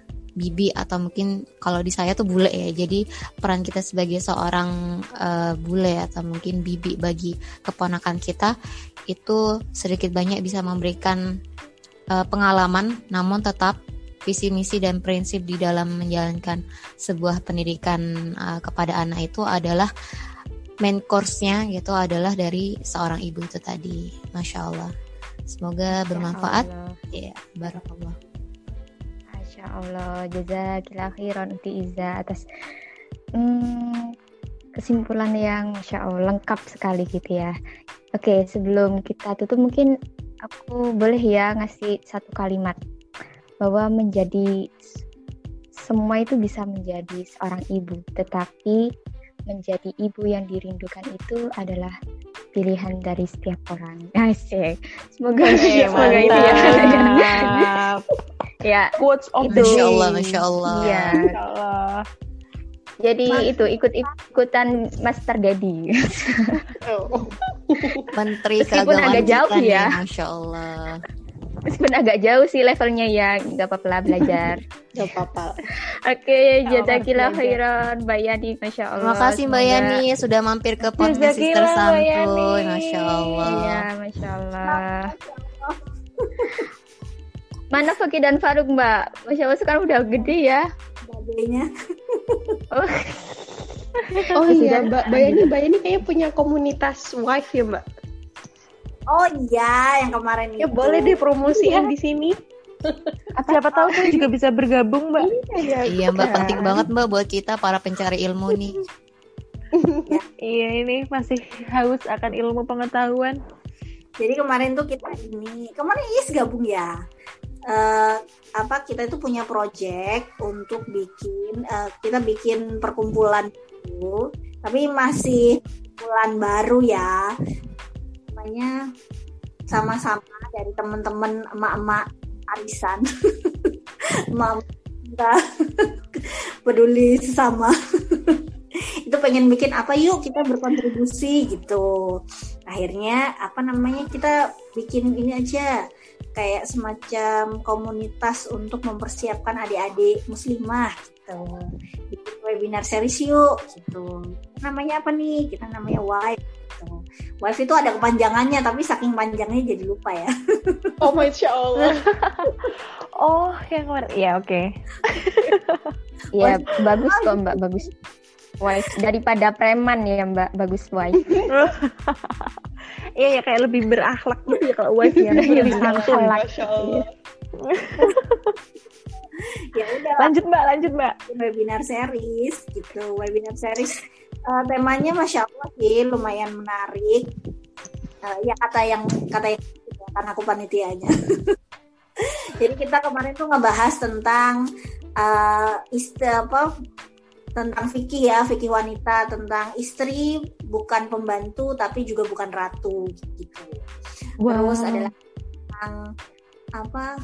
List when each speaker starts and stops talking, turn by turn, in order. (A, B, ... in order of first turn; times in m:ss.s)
0:00.4-0:08.5 A
0:09.1-0:11.2 A
0:12.1-0:13.7 A
0:14.2-0:19.9 A
0:20.8-0:24.9 A
0:25.5-0:28.2 A
0:25.9-0:27.0 B
0:29.3-0:32.4 B
0:33.4-0:34.1 B
0:34.8-0:37.5 B
0:38.2-0:39.9 B
0:40.4-0:42.8 B
0:43.6-0:44.5 B
0:45.8-0:48.8 B
0:49.5-0:51.9 B
0:52.6-0:57.7 B
0:55.4-0:57.4 C
0:55.5-0:58.0 D
0:58.6-1:00.1 B
0:59.0-0:59.9 D
0:59.5-1:01.2 A
1:00.6-1:01.3 B
1:01.1-1:02.0 D
1:03.0-1:06.6 B
1:06.8-1:08.1 C
1:08.2-1:11.0 A
1:08.6-1:09.9 B
1:11.7-1:14.6 B
1:15.0-1:15.5 C
1:16.1-1:20.0 B
1:16.7-1:17.5 D
1:19.0-1:23.8 A
1:20.9-1:23.6 D
1:23.5-1:25.1 B
1:24.6-1:26.6 E
1:27.7-1:30.6 B
1:31.0-1:31.7 E
1:32.3-1:32.5 E
1:32.7-1:33.6 B
1:34.1-1:35.5 B
1:34.3-1:37.8 C
1:39.1-1:41.2 E
1:40.6-1:43.1 C
1:41.5-1:41.8 B
1:43.4-1:44.2 B
1:43.5-1:45.4 D
1:45.2-1:46.8 C
1:45.8-1:48.8 A
1:46.2-1:46.7 B
1:50.4-1:53.4 D
1:54.2-1:56.9 E
1:57.7-2:07.2 E
2:08.3-2:08.7 E
2:09.7-2:13.7 E
2:14.3-2:18.4 E
2:19.0-2:21.9 E
2:22.7-2:25.8 E
2:26.4-2:31.6 E
2:32.1-2:40.9 E
2:41.0-2:42.0 C
2:41.8-2:45.9 D
2:46.4-2:47.9 B
2:47.1-2:47.6 E
2:48.6-2:51.2 B
2:51.5-2:52.5 D
2:53.2-2:56.4 D
2:55.2-2:57.0 C
2:55.2-2:57.0 B
2:57.6-2:58.5 D
2:59.7-3:00.3 E
3:00.2-3:01.2 D
3:01.3-3:07.3 E
3:08.2-3:11.1 E
3:12.2-3:14.6 E
3:15.2-3:16.7 E
3:17.6-3:23.8 E
3:24.4-3:25.1 B
3:24.5-3:25.1 E
3:25.7-3:26.0 E
3:26.8-3:27.1 E